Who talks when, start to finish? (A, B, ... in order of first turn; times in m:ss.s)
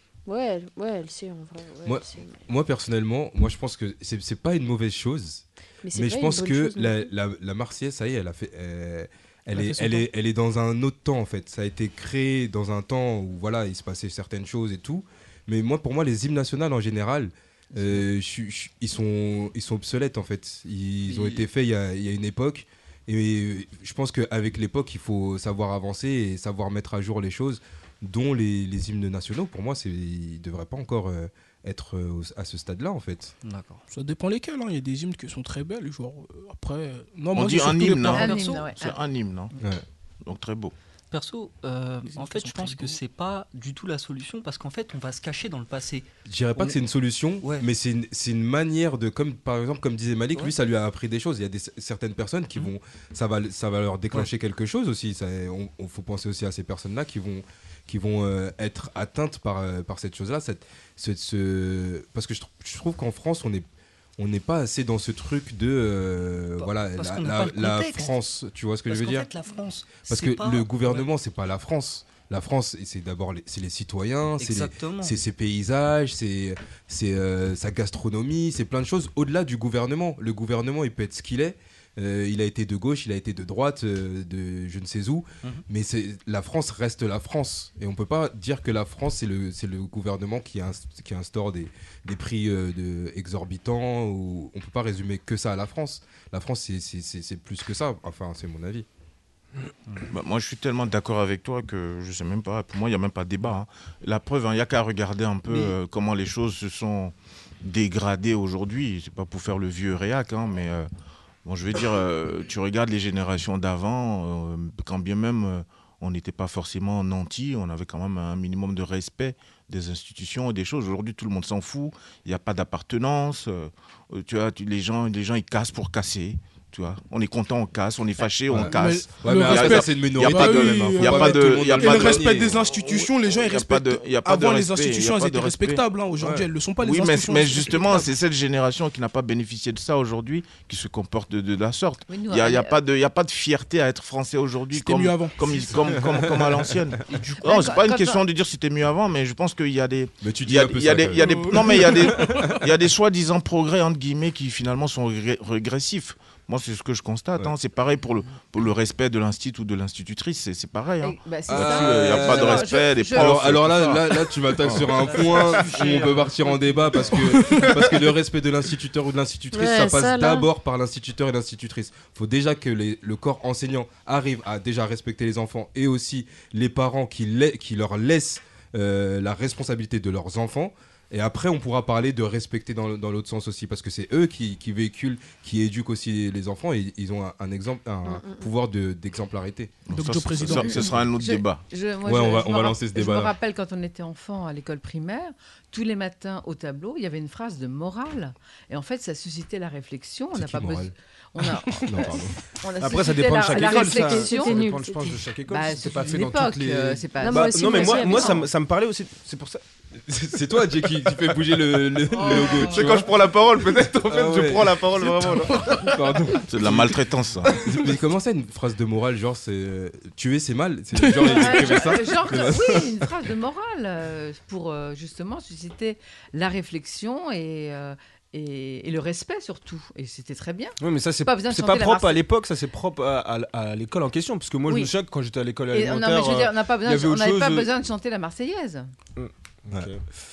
0:00.3-0:02.4 A
0:01.8-0:33.3 B
0:05.8-0:07.1 A
0:09.5-0:10.1 C
0:21.1-0:21.4 D
0:33.4-0:33.8 D
0:33.9-0:38.3 C
0:37.3-0:39.5 E
0:38.1-0:39.0 F
0:40.2-0:40.7 E
0:41.1-0:46.8 D
0:42.1-0:43.0 C
0:46.3-1:03.7 B
0:47.4-0:47.7 D
1:04.2-1:09.3 B
1:06.6-1:08.1 D
1:08.9-1:11.1 D
1:10.1-1:38.9 B
1:14.4-1:15.2 D
1:40.1-1:50.9 E
1:51.4-2:15.8 E
2:08.5-2:12.6 B
2:08.7-2:18.1 C
2:16.2-2:16.5 B
2:16.8-2:44.9 E
2:22.1-2:22.8 F
2:24.7-2:25.9 C
2:26.2-2:26.6 B
2:27.1-2:27.4 D
2:27.4-2:28.2 F
2:30.2-2:32.5 B
2:31.2-2:32.6 C
2:41.0-2:43.4 F
2:41.5-3:11.1 B
2:47.2-2:47.7 C
2:49.5-2:50.5 A
3:08.0-3:08.5 A
3:09.9-3:11.6 E
3:09.9-3:10.9 C
3:10.8-3:28.5 F
3:12.0-3:13.4 B
3:20.3-3:20.9 B
3:21.9-3:22.4 B
3:22.8-3:29.6 G
3:23.5-3:25.3 A
3:27.2-3:28.5 A
3:30.1-3:33.1 B
3:32.1-3:33.0 F
3:32.4-3:35.7 G
3:34.0-3:43.1 B
3:35.5-3:36.0 C
3:36.5-3:37.6 E
3:41.0-3:42.0 C
3:41.3-3:52.2 F
3:50.8-3:57.7 G
3:54.7-3:54.9 F
3:55.7-3:58.9 F
3:59.2-4:00.0 G